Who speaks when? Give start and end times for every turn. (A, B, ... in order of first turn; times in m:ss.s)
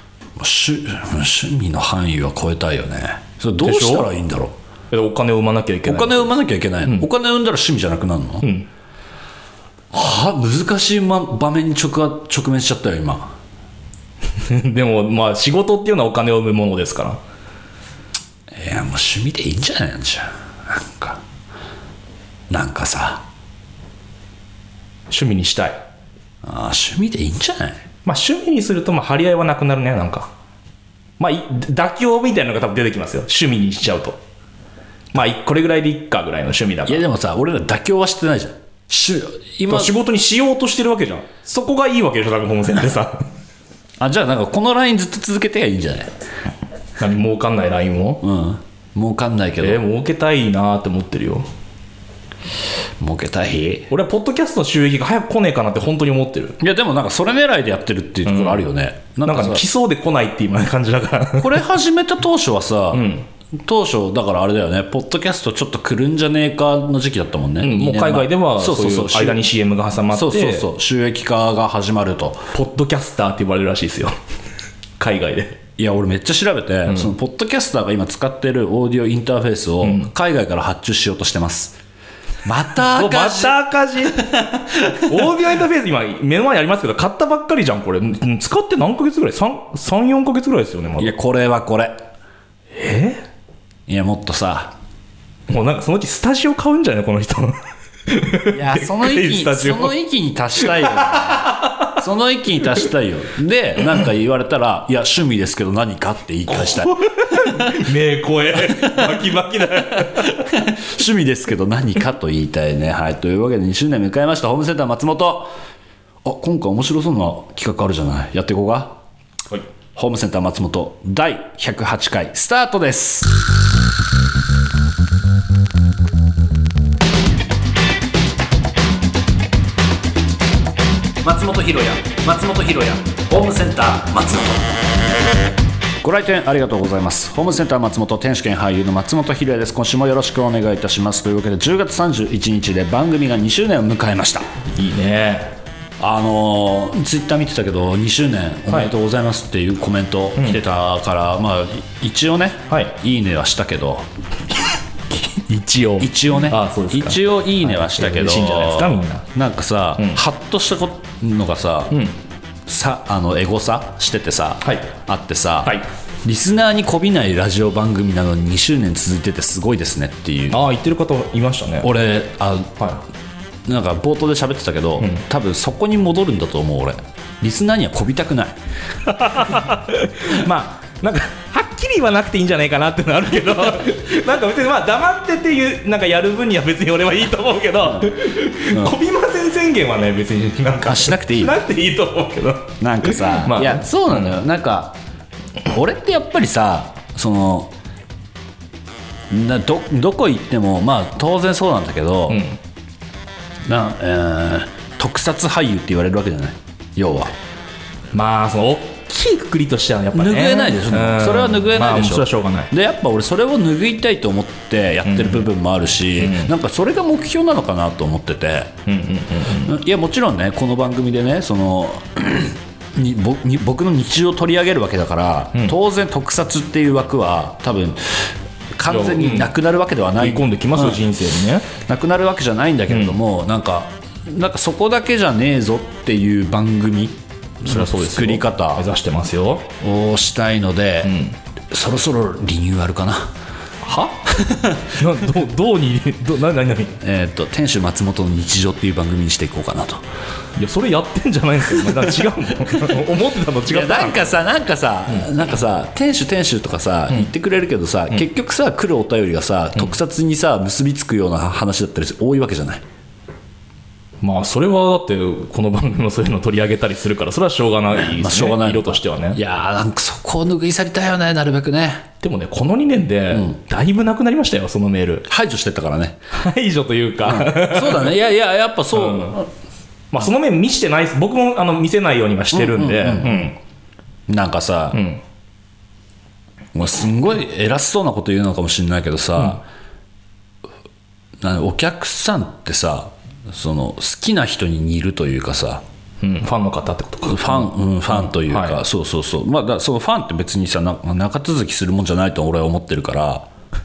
0:00.4-0:04.5 A
0:03.6-0:04.1 B
0:04.9-0:06.3 B
0:05.8-0:08.5 A
0:08.4-0:08.7 B
0:09.9-0:13.3 A
0:14.4-0:17.2 B
0:18.5-0:21.2 A
0:22.5-0:23.2 A
0:25.1-0:25.8 B
0:26.4-0:27.8 A
0:28.0-0:30.3 B
0:31.2-0:34.2 B
0:35.1-0:37.0 B
0:36.8-0:39.9 A
0:39.7-0:43.3 B
0:44.0-0:46.1 A
0:47.0-0:48.2 B
0:48.2-0:49.8 A
0:49.6-0:51.5 B
0:53.0-0:53.9 A
0:53.9-0:56.6 B
0:56.6-0:59.6 A
0:58.2-0:58.7 B
0:59.2-1:01.6 B
1:01.4-1:03.1 A
1:02.9-1:03.3 B
1:03.6-1:09.4 A
1:07.6-1:10.7 B
1:10.1-1:12.5 A
1:12.5-1:14.2 B
1:15.0-1:15.6 B
1:15.8-1:21.8 A
1:16.9-1:17.1 B
1:19.8-1:20.1 B
1:22.4-1:23.6 A
1:22.8-1:31.1 B
1:24.3-1:25.1 A
1:31.0-1:32.0 A
1:32.7-1:33.2 B
1:33.9-1:34.7 A
1:35.5-1:40.0 B
1:38.5-1:47.8 A
1:40.6-1:41.6 B
1:46.5-1:50.4 B
1:50.3-1:55.5 A
1:56.2-1:59.0 A
1:59.9-2:03.3 A
2:11.2-2:14.8 A
2:16.0-2:24.5 A
2:24.7-2:25.5 B
2:26.0-2:34.1 A
2:30.4-2:30.6 B
2:32.7-2:33.0 B
2:35.1-2:39.2 B
2:36.0-2:42.0 A
2:41.9-2:42.1 B
2:42.7-2:50.6 A
2:44.6-2:44.9 B
2:50.5-2:51.9 B
2:51.8-2:52.8 A
2:53.6-2:58.5 A
2:59.1-3:14.4 B
3:07.9-3:08.1 A
3:08.7-3:09.0 A
3:10.8-3:11.6 A
3:12.8-3:15.0 A
3:15.7-3:17.7 A
3:19.3-3:22.4 A
3:22.3-3:22.6 B
3:23.6-3:27.3 A
3:28.1-3:32.7 B
3:30.1-3:38.8 A
3:35.0-3:35.5 B
3:36.2-3:36.5 B
3:38.8-3:39.7 B
3:39.6-3:51.0 A
3:48.8-3:49.5 B
3:50.2-3:51.7 B
3:51.8-3:58.8 A
3:52.9-3:53.2 B
3:57.6-3:59.7 B
3:59.8-4:01.2 A
4:01.0-4:01.4 B
4:01.7-4:03.3 A
4:03.8-4:04.2 B
4:04.3-4:05.0 A
4:05.0-4:07.0 B
4:07.0-4:10.0 A
4:10.6-4:14.3 B
4:13.7-4:22.8 A
4:24.2-4:29.4 B
4:27.9-4:32.1 A
4:32.2-4:35.2 B
4:33.3-4:33.6 A
4:35.3-4:36.2 A
4:36.3-4:38.2 B
4:37.2-4:39.5 A
4:38.9-4:39.4 B
4:40.1-4:43.6 B
4:42.5-4:43.5 A
4:44.3-4:45.0 A
4:44.9-4:45.2 B
4:46.7-4:49.6 A
4:51.4-4:55.8 A
4:56.2-4:58.8 B
4:57.2-5:03.4 A